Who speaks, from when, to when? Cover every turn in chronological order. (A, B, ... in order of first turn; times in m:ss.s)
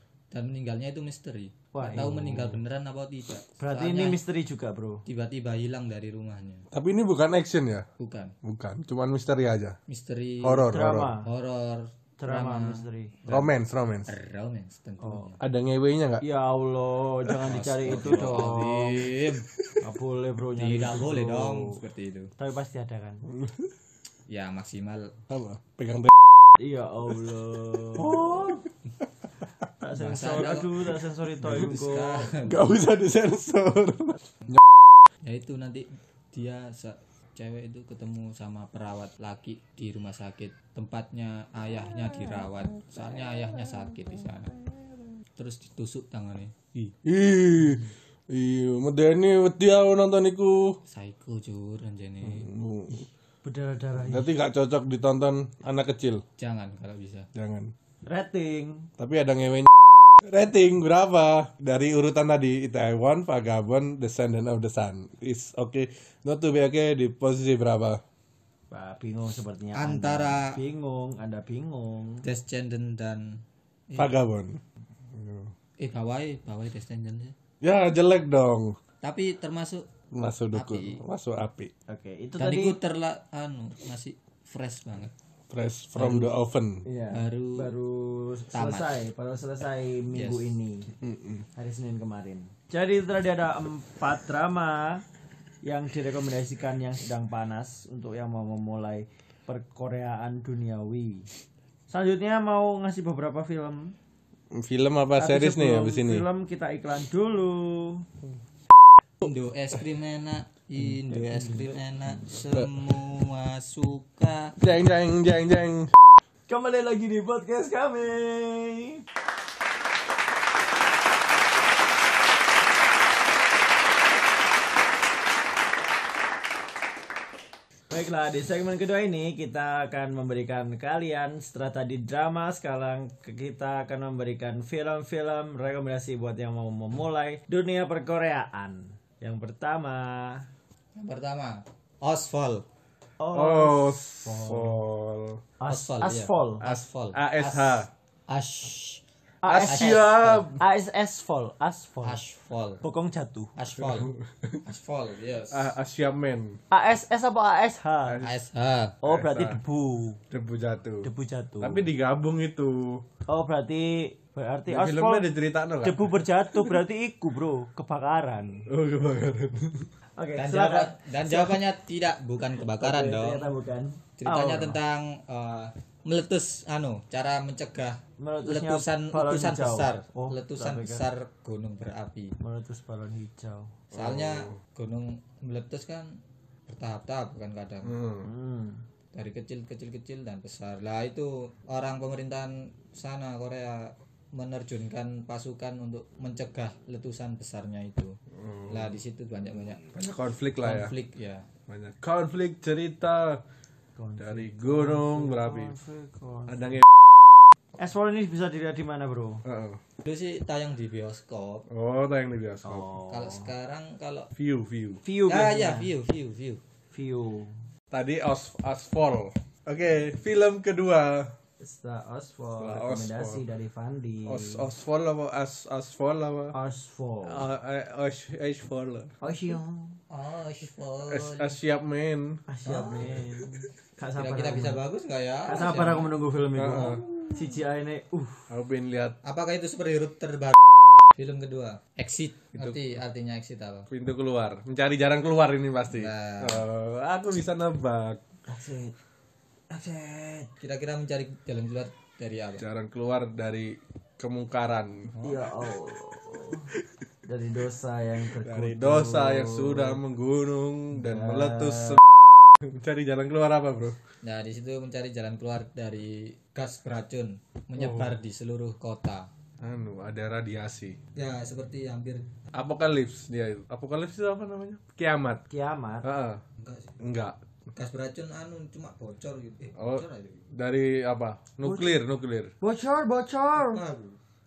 0:00.3-0:04.2 A
0:01.7-0:02.6 B
0:03.6-0:05.0 B
0:05.0-0:06.6 A
0:06.7-0:07.9 C
0:08.0-0:08.4 A
0:08.4-0:09.8 C
0:09.9-0:12.8 A
0:10.4-0:11.1 C
0:10.7-0:11.3 B
0:12.2-0:13.5 B
0:13.3-0:14.1 C
0:14.1-0:15.4 A
0:15.0-0:15.4 B
0:15.4-0:16.2 C
0:16.2-0:19.1 B
0:17.2-0:18.6 C
0:17.4-0:19.6 A
0:19.8-0:21.8 B
0:20.6-0:22.3 A
0:22.4-0:23.3 B
0:23.3-0:23.6 C
0:24.3-0:25.2 A
0:25.3-0:26.1 C
0:26.6-0:28.6 B
0:28.0-0:28.6 C
0:29.8-0:32.3 B
0:30.0-0:32.6 A
0:32.4-0:34.6 C
0:35.2-0:44.5 A
0:45.4-0:46.9 A
0:47.0-0:50.8 C
0:50.9-0:52.5 A
0:52.2-0:53.0 C
0:53.4-0:54.3 B
0:54.1-0:56.2 C
0:56.4-0:57.3 A
0:57.4-0:57.7 C
0:58.0-0:58.9 B
0:59.0-1:08.0 C
1:08.7-1:12.2 B
1:09.8-1:10.6 A
1:12.2-1:14.1 A
1:14.0-1:14.6 C
1:15.1-1:15.5 C
1:15.8-1:17.3 A
1:17.6-1:18.8 C
1:19.0-1:19.9 A
1:20.1-1:21.7 C
1:20.5-1:21.0 A
1:21.9-1:22.8 B
1:22.4-1:25.1 A
1:25.5-1:26.8 C
1:26.8-1:30.9 B
1:27.1-1:27.7 A
1:28.5-1:29.0 A
1:30.1-1:30.5 A
1:31.0-1:31.4 C
1:31.6-1:35.0 B
1:35.6-1:41.3 B
1:41.9-1:44.0 B
1:44.5-1:46.3 C
1:45.2-1:48.1 B
1:49.2-1:54.6 A
1:50.9-1:51.7 B
1:54.6-1:55.9 C
1:56.5-1:59.0 B
2:07.9-2:20.5 B
2:21.0-2:22.6 A
2:23.2-2:24.8 B
2:23.3-2:25.4 C
2:25.6-2:26.8 B
2:25.7-2:29.0 A
2:27.1-2:27.9 C
2:29.4-2:32.2 B
2:29.5-2:30.6 C
2:29.5-2:30.5 A
2:32.0-2:32.8 A
2:32.8-2:33.5 B
2:33.6-2:34.1 A
2:33.8-2:34.6 C
2:34.6-2:35.7 A
2:35.5-2:36.6 C
2:36.7-2:38.2 B
2:38.1-2:38.3 C
2:38.2-2:39.0 A
2:39.0-2:40.2 B
2:39.0-2:39.6 C
2:40.3-2:41.1 C
2:41.0-2:41.9 B
2:41.6-2:43.0 C
2:43.3-2:45.3 B
2:44.7-2:46.7 C
2:45.8-2:48.6 B
2:48.7-2:49.9 C
2:50.2-2:51.6 B
2:50.4-2:53.5 A
2:52.8-2:54.8 B
2:54.2-3:02.4 A
2:58.2-3:01.0 B
3:02.4-3:03.8 B
3:03.9-3:08.0 A
3:03.9-3:04.5 C
3:07.8-3:08.3 C
3:08.2-3:08.8 B
3:09.1-3:18.2 A
3:18.4-3:19.0 C
3:18.7-3:19.9 A
3:20.0-3:20.9 C
3:20.6-3:21.5 A
3:21.7-3:23.4 C
3:24.0-3:26.8 B
3:24.2-3:25.7 C
3:26.5-3:26.8 C
3:27.8-3:29.4 B
3:29.4-3:29.8 C
3:30.0-3:31.7 A
3:31.7-3:32.9 C
3:32.6-3:33.5 B
3:33.1-3:34.3 A
3:34.3-3:35.0 C
3:35.0-3:35.9 B
3:35.3-3:36.6 A
3:36.9-3:37.7 B
3:37.9-3:41.3 C
3:41.6-3:44.7 B
3:42.6-3:43.4 C
3:44.2-3:46.5 C
3:46.5-3:47.5 B
3:47.2-3:49.1 C
3:49.2-3:50.0 B
3:50.1-3:51.5 A
3:51.1-3:52.4 C
3:52.5-3:54.8 B
3:52.6-3:53.2 A
3:54.2-3:56.1 A
3:55.5-3:58.5 B
3:56.6-3:57.0 C
3:58.5-3:59.2 C
3:59.2-4:00.6 A
4:01.2-4:03.9 A
4:02.5-4:02.8 C
4:03.9-4:08.2 C
4:05.9-4:06.6 A
4:08.5-4:09.0 B
4:09.7-4:10.5 B
4:10.6-4:12.6 A
4:12.6-4:15.2 C
4:15.2-4:16.7 B
4:17.2-4:20.0 B
4:18.4-4:22.0 C
4:20.9-4:22.0 B
4:22.6-4:24.0 C
4:24.2-4:29.3 A
4:27.8-4:28.2 C
4:29.6-4:31.0 C
4:31.2-4:32.3 A
4:32.5-4:35.4 C
4:35.5-4:36.0 B
4:36.0-4:36.4 C
4:36.6-4:37.0 A
4:37.0-4:37.4 C
4:37.7-4:40.5 A
4:39.8-4:42.5 C
4:41.6-4:42.0 B
4:42.6-4:43.8 B
4:43.5-4:44.2 A